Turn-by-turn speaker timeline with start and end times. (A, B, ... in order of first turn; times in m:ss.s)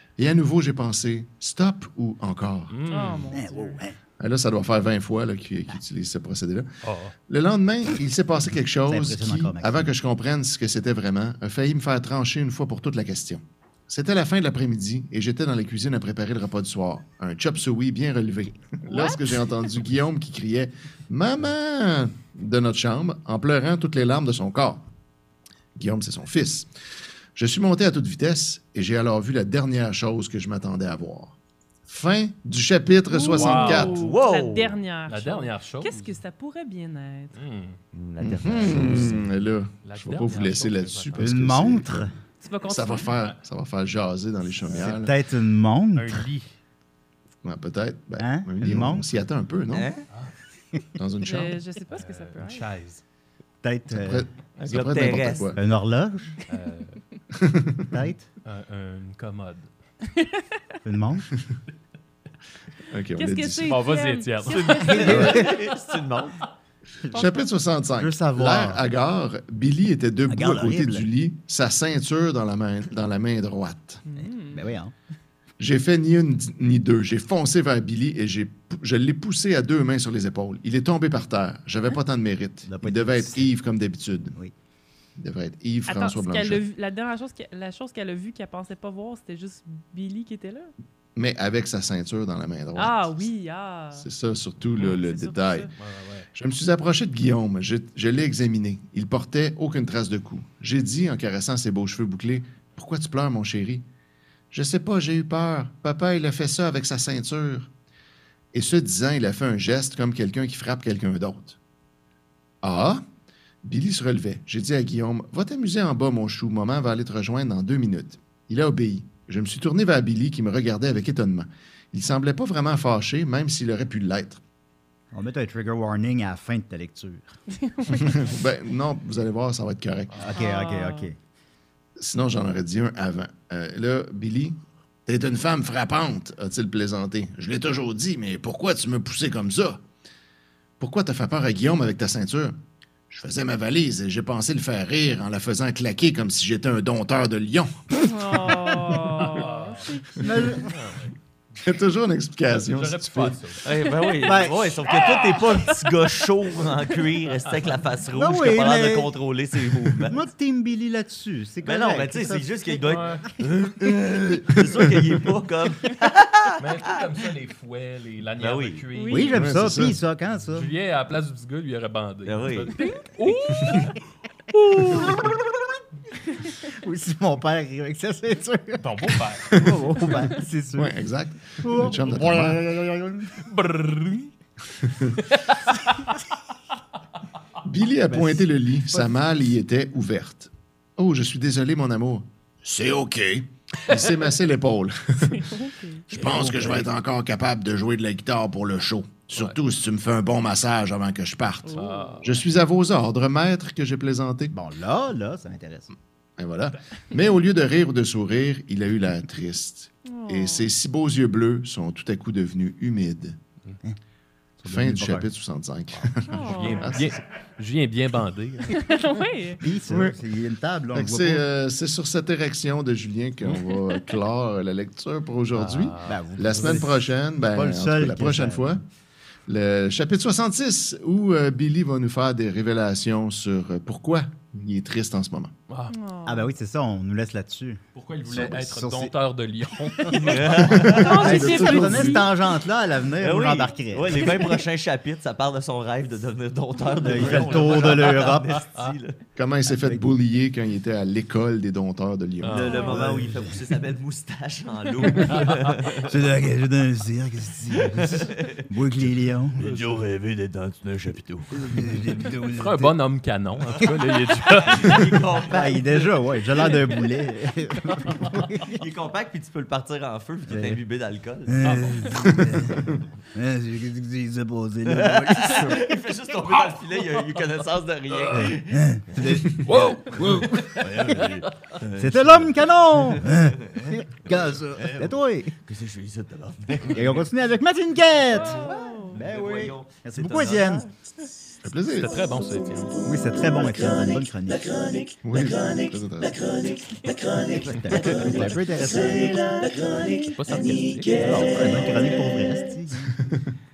0:00.2-0:02.8 A
0:02.7-0:03.3 B
0:02.9-0:03.8 C
0:03.3-0:04.0 D
0:04.2-0:06.7 A
0:06.8-0:07.2 B
0:07.3-0:24.8 A
0:08.9-0:09.9 D
0:18.9-0:19.5 C
0:25.8-0:26.7 A
0:27.4-0:31.4 A
0:31.9-0:34.0 A
0:33.1-0:37.4 C
0:33.3-0:34.1 B
0:33.7-0:34.8 E
0:35.1-0:36.2 B
0:37.4-0:37.8 B
0:37.9-0:39.3 E
0:38.2-0:42.1 A
0:39.8-0:41.3 B
0:41.2-0:42.1 D
0:42.4-0:43.1 C
0:42.6-0:45.2 A
0:44.7-0:46.2 D
0:46.0-0:46.5 B
0:47.4-0:49.9 A
0:48.2-0:49.2 D
0:49.7-0:50.0 E
0:51.0-0:51.6 A
0:51.2-0:52.7 C
0:51.9-0:53.0 B
0:53.6-0:54.3 D
0:53.9-0:55.6 A
0:54.6-0:55.5 E
0:55.6-0:56.4 D
0:56.5-0:57.0 B
0:57.3-0:57.9 A
0:57.9-0:58.2 D
0:58.4-0:59.7 B
1:00.1-1:00.5 C
1:00.8-1:01.3 D
1:02.9-1:03.8 A
1:03.2-1:05.3 C
1:03.7-1:06.0 B
1:04.5-1:06.5 E
1:04.9-1:05.5 D
1:07.1-1:14.0 A
1:07.2-1:07.5 C
1:08.0-1:08.8 D
1:10.3-1:11.1 D
1:14.1-1:14.7 C
1:14.2-1:14.9 D
1:15.6-1:24.4 A
1:22.7-1:23.5 D
1:25.2-1:26.6 A
1:25.9-1:30.7 C
1:31.2-1:33.3 A
1:32.8-1:34.1 C
1:33.9-1:35.7 A
1:34.9-1:35.7 C
1:35.8-1:36.3 B
1:36.3-1:43.8 A
1:44.5-1:47.7 A
1:48.5-1:51.6 A
1:52.6-1:53.0 A
1:53.6-2:04.4 A
2:05.1-2:07.4 D
2:07.7-2:08.1 C
2:07.9-2:10.2 A
2:10.2-2:11.2 D
2:10.4-2:11.1 C
2:12.0-2:19.8 A
2:20.8-2:22.6 A
2:23.1-2:29.4 A
2:28.0-2:30.6 C
2:29.2-2:30.0 B
2:30.2-2:30.7 D
2:30.6-2:31.1 B
2:31.6-2:33.4 A
2:32.5-2:33.7 B
2:33.6-2:40.2 E
2:34.2-2:34.8 D
2:34.9-2:35.5 B
2:37.4-2:37.8 B
2:38.1-2:39.2 D
2:40.0-2:42.9 D
2:41.6-2:47.1 E
2:42.8-2:43.2 B
2:44.8-2:45.1 A
2:46.6-2:49.4 B
2:48.4-2:48.8 E
2:48.9-2:49.4 C
2:49.1-2:50.7 D
2:49.3-2:50.0 A
2:50.5-2:54.0 B
2:52.3-2:52.7 E
2:52.8-2:53.5 C
2:54.5-2:55.3 B
2:54.7-2:55.3 D
2:56.6-3:01.0 D
2:58.8-2:59.6 B
2:59.5-2:59.8 A
3:00.8-3:02.6 A
3:01.6-3:03.3 D
3:03.4-3:04.3 B
3:04.8-3:05.2 A
3:05.2-3:06.2 B
3:07.6-3:15.5 A
3:08.1-3:09.1 D
3:15.3-3:16.0 C
3:16.1-3:24.5 A
3:16.2-3:16.8 D
3:21.6-3:22.3 C
3:21.7-3:22.3 B
3:24.5-3:25.9 D
3:26.4-3:33.4 A
3:30.1-3:30.7 C
3:34.6-3:35.3 D
3:34.7-3:37.2 A
3:36.3-3:37.0 C
3:36.5-3:38.9 B
3:38.7-3:39.6 C
3:39.6-3:41.4 D
3:39.9-3:40.2 A
3:40.9-3:48.8 A
3:45.5-3:46.8 B
3:46.1-3:48.7 D
3:49.5-3:55.5 A
3:55.7-3:55.9 B
3:55.9-3:56.5 C
3:56.3-3:59.1 D
3:57.9-4:01.0 B
4:00.2-4:01.3 E
4:00.7-4:02.2 A
4:00.9-4:02.3 C
4:00.9-4:04.5 D
4:03.2-4:09.2 E
4:07.0-4:08.6 D
4:07.3-4:07.9 B
4:09.4-4:12.7 A
4:12.4-4:12.9 B
4:12.5-4:16.1 E
4:12.7-4:13.0 C
4:12.8-4:13.6 D
4:15.2-4:15.8 B
4:16.0-4:19.7 D
4:17.8-4:18.6 E
4:19.6-4:21.5 E
4:19.6-4:20.2 B
4:21.5-4:22.9 D
4:22.5-4:25.2 B
4:24.4-4:27.0 E
4:25.5-4:28.8 D
4:28.6-4:31.8 E
4:30.5-4:30.8 D
4:31.5-4:36.0 D
4:31.6-4:32.1 B
4:34.9-4:47.2 E
4:36.7-4:37.2 B
4:38.2-4:38.5 B
4:38.3-4:41.2 D
4:39.6-4:41.5 B
4:42.0-4:45.5 D
4:46.9-4:50.9 D
4:48.3-4:49.2 C
4:48.5-4:50.9 E
4:51.6-4:52.2 A
4:51.9-4:52.9 B
4:52.9-5:02.4 E
4:53.0-4:54.7 D
4:55.2-4:56.4 A
4:57.5-4:59.5 D
4:57.9-4:58.6 B
5:00.3-5:01.5 B
5:01.2-5:03.2 D
5:03.2-5:03.5 A